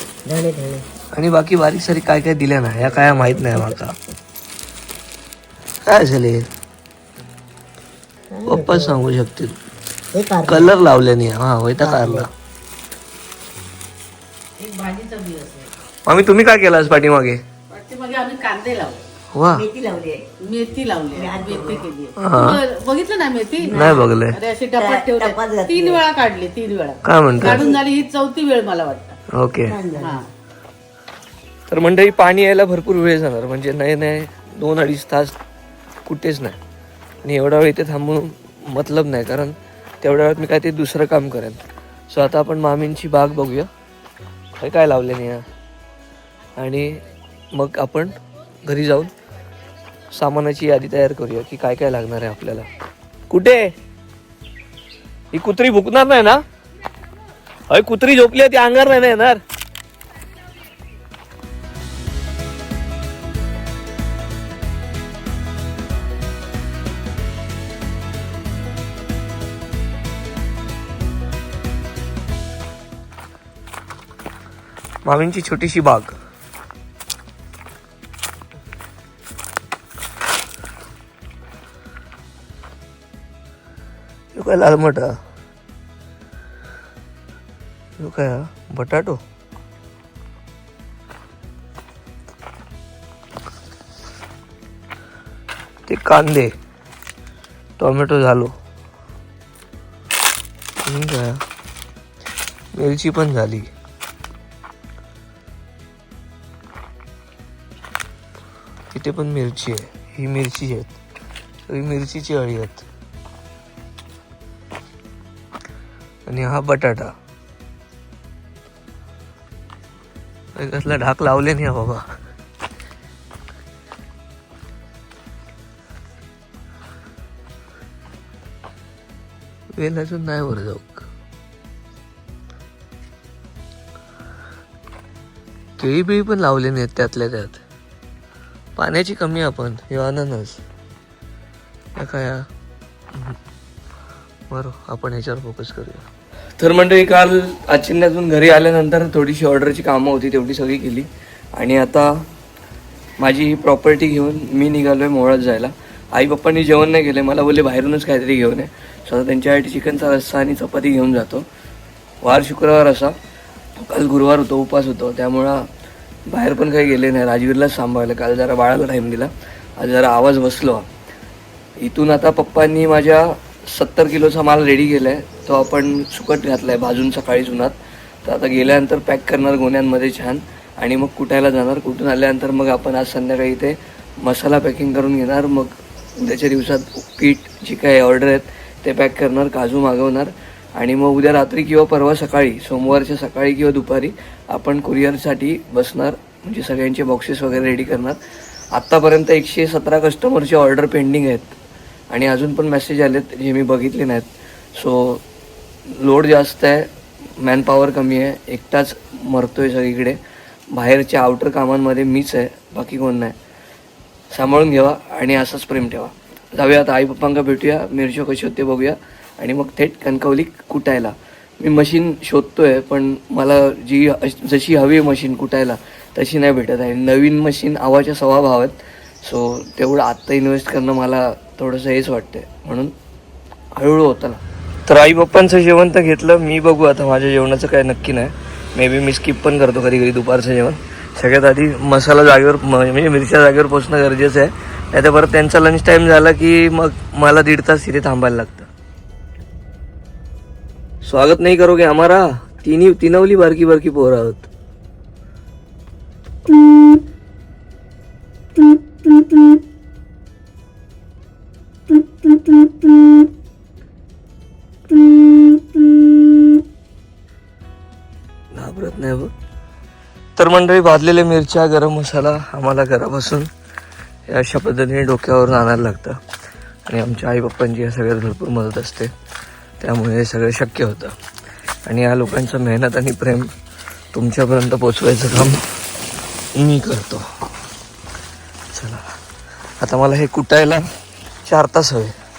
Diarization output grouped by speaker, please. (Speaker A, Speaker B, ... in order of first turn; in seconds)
Speaker A: 0.2-0.8, 8.3-9.0, 10.2-10.8, 11.8-12.3, 19.5-20.3, 21.1-21.9, 23.6-24.1, 24.8-26.1, 27.4-27.8, 29.7-30.2
Speaker B: 1.1-4.0, 5.8-6.5, 8.4-9.6, 10.4-12.3, 16.1-17.4, 19.3-19.7, 22.2-22.6, 23.7-24.4, 27.0-27.7, 29.3-29.8, 31.7-35.4, 36.0-36.6, 37.2-43.7, 44.6-45.5, 46.6-47.0, 47.5-49.1, 50.1-52.7, 53.3-53.7, 55.3-56.4, 57.7-59.4, 75.0-76.2, 84.3-85.2, 88.0-89.2, 95.9-96.5, 97.8-98.5, 100.8-101.4, 102.7-103.7, 108.9-111.0, 111.7-112.9, 116.3-117.2, 120.5-122.1, 129.8-131.1, 135.8-137.6, 138.8-140.6, 142.0-142.5, 144.5-146.1, 146.6-152.2, 153.2-161.5, 162.2-163.2, 163.8-165.7, 166.3-170.9, 171.8-198.2, 198.7-201.5, 202.1-205.2, 205.9-210.2, 210.7-213.3, 214.3-232.9, 233.8-248.7, 251.0-254.5, 268.5-269.3, 270.4-273.5, 274.3-276.2, 276.9-279.1, 279.8-281.1, 281.9-283.5, 284.1-285.6, 286.6-287.3, 288.7-289.1, 289.8-290.8, 291.4-292.1
Speaker C: 14.6-15.7, 17.7-19.0, 20.4-29.2, 30.0-30.3